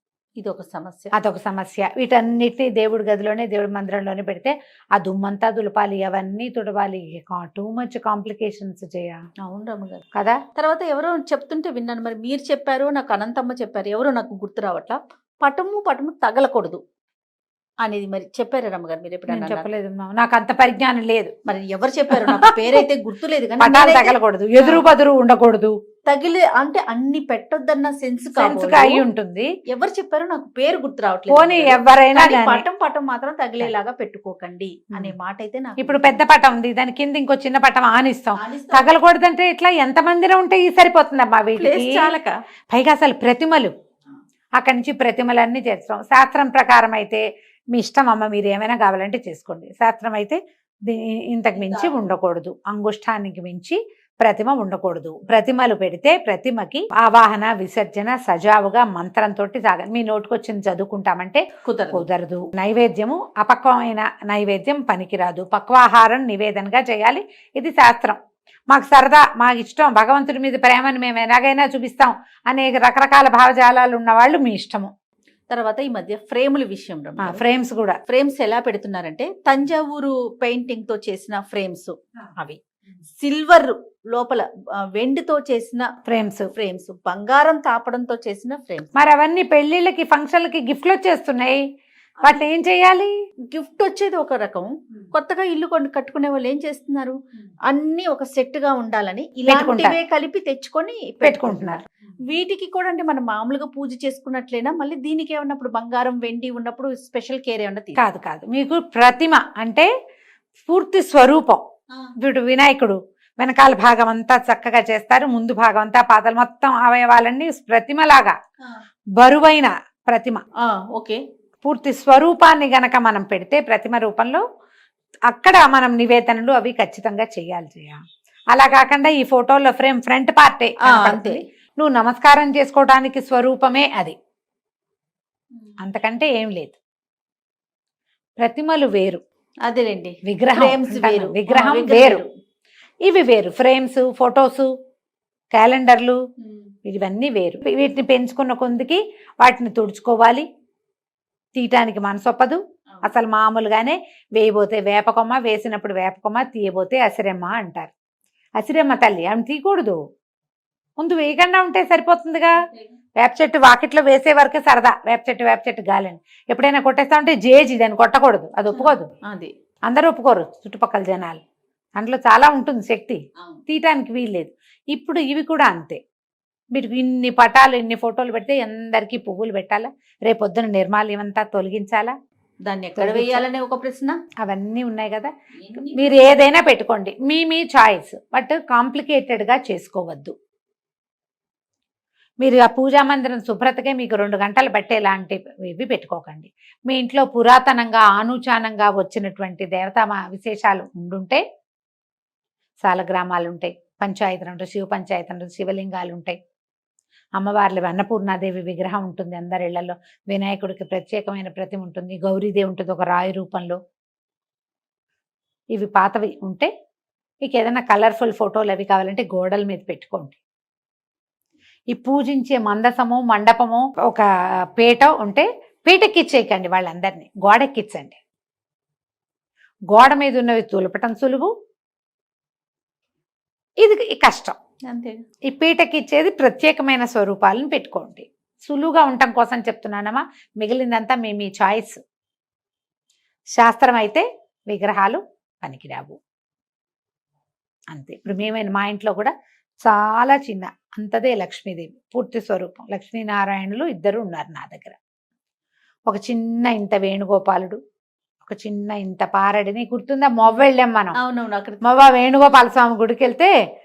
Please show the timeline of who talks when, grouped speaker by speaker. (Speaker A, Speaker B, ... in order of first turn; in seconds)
Speaker A: 0.4-1.1, 9.4-10.0, 10.6-16.8, 17.8-19.7, 21.5-24.9, 26.1-29.1, 29.7-36.2, 38.4-39.0, 41.6-42.4, 51.5-52.0, 61.6-62.1, 75.5-77.4, 78.1-82.6, 83.2-85.9, 86.5-88.9, 93.5-97.2, 97.7-108.0, 120.6-121.2, 130.8-131.4, 139.7-142.3, 168.7-169.5, 182.7-184.2, 185.6-186.5, 234.9-235.2, 261.2-261.8
Speaker B: 1.1-9.2, 10.2-10.4, 19.3-21.3, 22.1-22.9, 23.6-25.8, 28.4-29.5, 31.3-32.6, 35.8-42.1, 42.7-43.7, 44.6-68.2, 68.7-74.9, 77.2-78.0, 86.1-86.5, 89.0-91.6, 92.2-93.1, 99.5-100.0, 101.2-101.8, 108.0-109.9, 110.7-111.6, 112.2-118.4, 119.2-120.4, 121.6-124.4, 125.3-128.0, 128.5-134.2, 135.8-136.8, 138.4-139.2, 140.3-142.2, 143.1-144.7, 145.5-146.2, 146.9-150.5, 151.6-157.9, 158.6-160.0, 161.0-162.5, 163.2-169.1, 169.9-171.4, 172.0-176.0, 176.8-182.2, 183.0-183.4, 184.4-185.3, 185.9-190.3, 192.4-201.4, 202.8-206.4, 207.4-213.8, 215.8-216.7, 217.4-220.4, 221.9-228.2, 229.9-231.5, 233.8-234.6, 235.5-242.0, 243.6-246.2, 247.9-255.0, 256.1-257.8, 258.4-261.2, 261.8-263.5